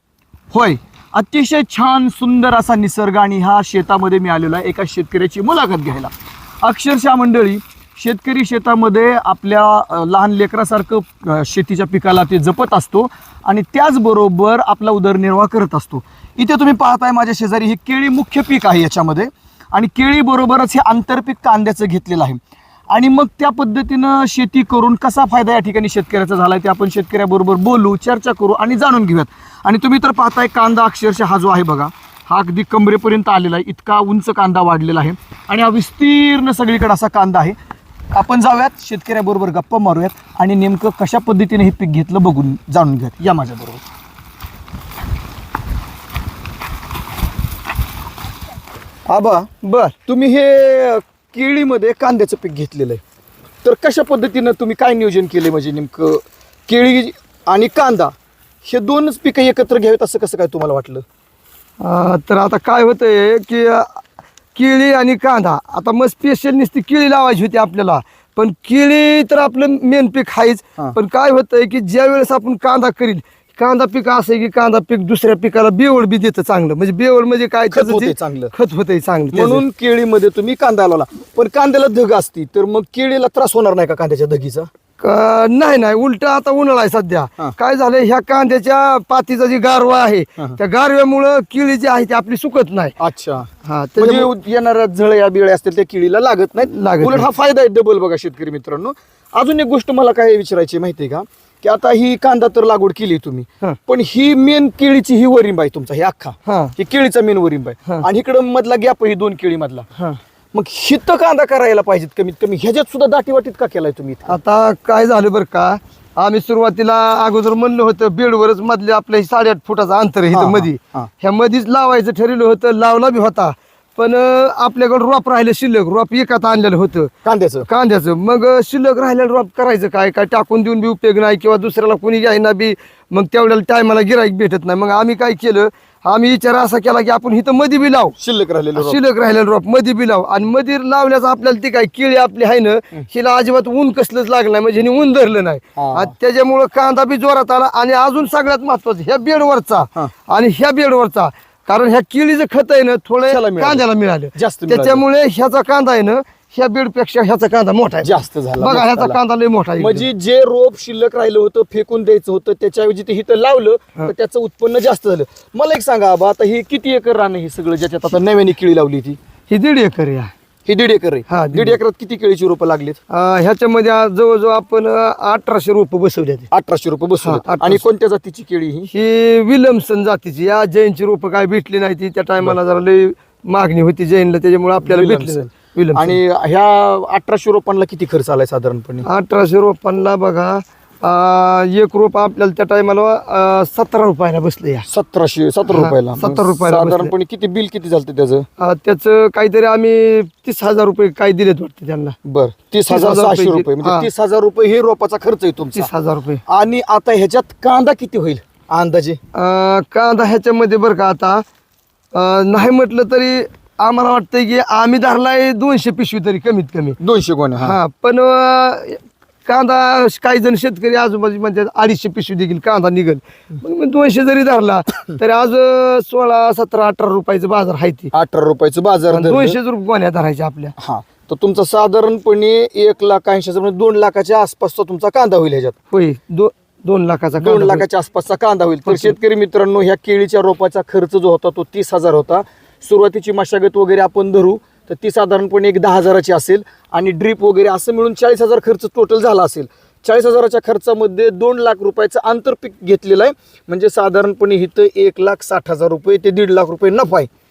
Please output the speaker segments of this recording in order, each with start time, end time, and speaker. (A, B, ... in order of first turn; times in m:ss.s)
0:00.5-0:22.4 A
0:22.9-0:37.6 A
0:38.1-0:43.8 A
0:49.1-0:49.5 A
0:49.6-0:50.0 B
0:50.0-0:53.0 A
0:53.6-1:01.0 A
1:01.8-1:04.0 B
1:04.6-1:19.6 B
1:17.7-1:18.5 A
1:19.3-1:24.7 A
1:25.0-1:33.0 B
1:33.0-1:49.9 A
1:33.6-1:34.3 B
1:36.6-1:37.3 B
1:46.5-1:46.8 B
1:50.5-1:54.4 A
1:54.3-2:07.1 B
2:00.3-2:01.1 A
2:07.2-2:07.7 A
2:07.7-2:18.2 B
2:18.2-2:19.0 A
2:18.8-2:40.1 B
2:25.8-2:26.1 A
2:33.3-2:35.0 A
2:38.0-2:39.2 A
2:39.8-2:49.2 A
2:49.5-2:50.3 B
2:50.7-2:53.0 A
2:51.3-2:51.8 B
2:53.1-2:56.5 B
2:56.5-2:58.9 A
2:57.2-2:57.8 B
2:58.9-3:06.2 B
3:04.8-3:09.1 A
3:09.0-3:14.9 B
3:14.9-3:18.5 A
3:15.7-3:17.1 B
3:18.6-3:22.2 B
3:22.2-3:25.9 A
3:22.9-3:24.1 B
3:25.7-3:26.4 B
3:26.5-3:29.2 A
3:29.3-3:31.4 B
3:32.1-3:37.0 B
3:37.0-3:37.8 A
3:37.6-3:48.1 B
3:48.1-3:49.6 A
3:49.1-3:50.8 B
3:50.8-3:55.8 A
3:55.9-3:57.9 B
3:57.4-4:17.3 A
3:58.9-3:59.2 B